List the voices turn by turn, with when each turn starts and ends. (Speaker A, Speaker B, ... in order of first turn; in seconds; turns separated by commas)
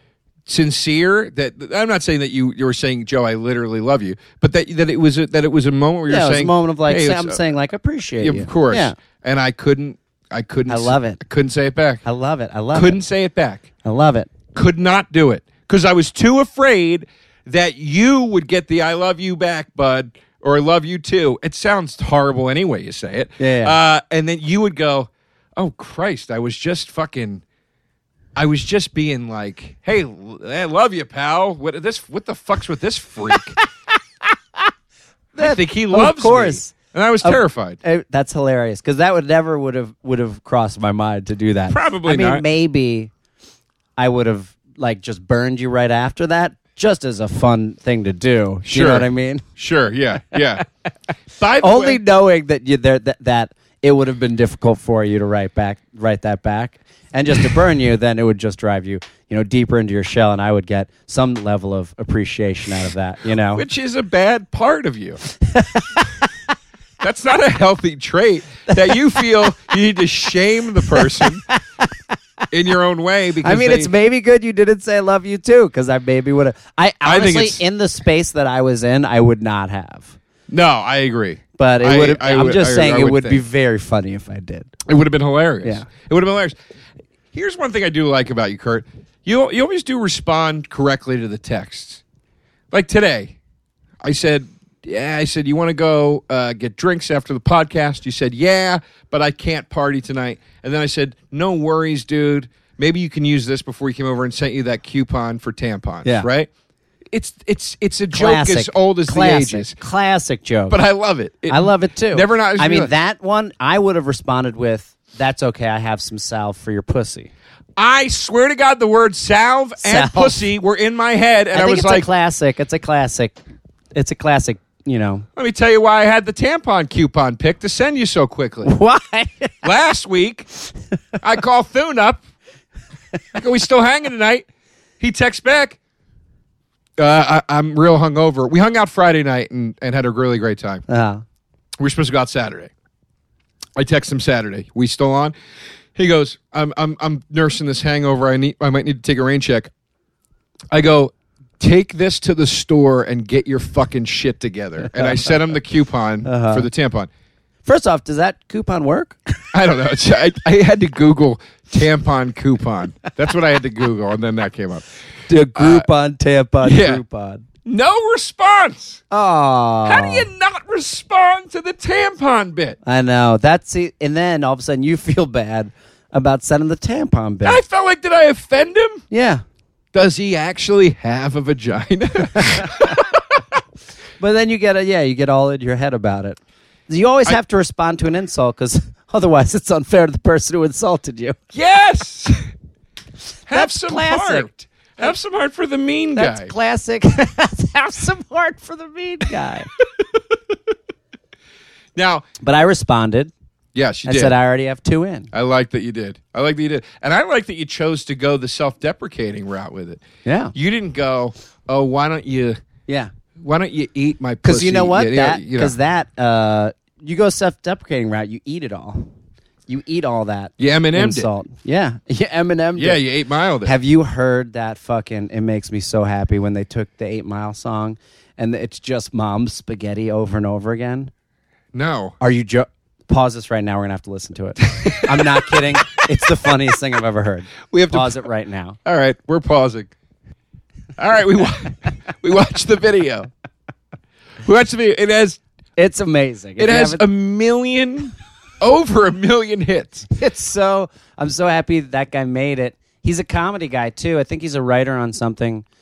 Speaker A: 0.5-7.4, Speaker B: 6.1-9.0, Speaker A: 8.2-12.0, Speaker B: 10.7-11.2, Speaker B: 12.0-13.0, Speaker A: 12.7-13.7, Speaker B: 13.8-14.3, Speaker A: 14.5-27.4, Speaker B: 23.4-23.8, Speaker A: 28.4-33.5, Speaker B: 35.4-43.1, Speaker A: 35.4-37.8, Speaker A: 41.7-42.5, Speaker B: 44.0-49.5, Speaker A: 48.7-50.6, Speaker A: 51.3-52.0, Speaker B: 51.6-63.7, Speaker A: 63.5-65.2, Speaker B: 65.3-66.3, Speaker A: 67.0-71.4, Speaker B: 68.7-69.5, Speaker B: 70.9-72.0, Speaker A: 72.5-73.9, Speaker B: 73.4-80.2, Speaker A: 77.0-77.6, Speaker A: 80.5-83.4, Speaker B: 81.6-84.8, Speaker A: 84.9-86.5, Speaker B: 85.6-85.9, Speaker A: 87.3-92.0, Speaker A: 92.7-93.4, Speaker A: 94.0-106.5, Speaker A: 107.1-109.8, Speaker B: 108.1-110.8, Speaker A: 110.7-112.9, Speaker B: 111.5-117.3, Speaker A: 117.8-122.1, Speaker B: 119.8-120.5, Speaker B: 121.5-123.4, Speaker B: 124.0-125.3, Speaker A: 125.4-128.7, Speaker B: 128.6-129.6, Speaker A: 129.6-130.5, Speaker A: 131.2-132.2, Speaker A: 133.3-134.5, Speaker A: 135.0-135.8, Speaker A: 137.0-140.8, Speaker B: 140.9-141.2, Speaker A: 141.8-142.7, Speaker A: 143.8-145.3, Speaker A: 145.9-149.7, Speaker A: 150.7-157.1, Speaker B: 154.8-155.3, Speaker B: 156.2-156.7, Speaker B: 157.7-159.4, Speaker A: 159.5-164.9, Speaker B: 165.3-167.4, Speaker A: 165.6-165.9, Speaker A: 166.6-167.0, Speaker A: 167.7-169.0, Speaker B: 169.1-170.3, Speaker A: 169.8-172.8, Speaker B: 172.8-177.6, Speaker A: 177.4-179.0, Speaker B: 179.1-179.4, Speaker A: 179.9-183.2, Speaker B: 182.4-183.0, Speaker B: 184.2-191.4, Speaker A: 191.5-192.4, Speaker A: 193.5-196.5, Speaker B: 193.5-194.5, Speaker B: 196.2-199.7, Speaker A: 201.9-202.3, Speaker B: 202.4-203.3, Speaker A: 203.8-204.4, Speaker B: 204.1-205.3, Speaker A: 205.3-210.0, Speaker B: 210.3-210.5, Speaker A: 210.6-212.6, Speaker A: 213.4-215.8, Speaker B: 214.4-219.1, Speaker B: 219.7-223.0, Speaker A: 220.6-221.3, Speaker A: 222.8-223.8, Speaker B: 223.6-231.1, Speaker A: 231.7-232.2, Speaker B: 232.2-238.8, Speaker A: 234.8-236.0, Speaker A: 237.7-238.2, Speaker A: 238.8-239.9, Speaker A: 241.0-243.3, Speaker A: 244.4-245.4, Speaker B: 245.8-247.0, Speaker A: 246.6-250.1, Speaker B: 250.1-255.7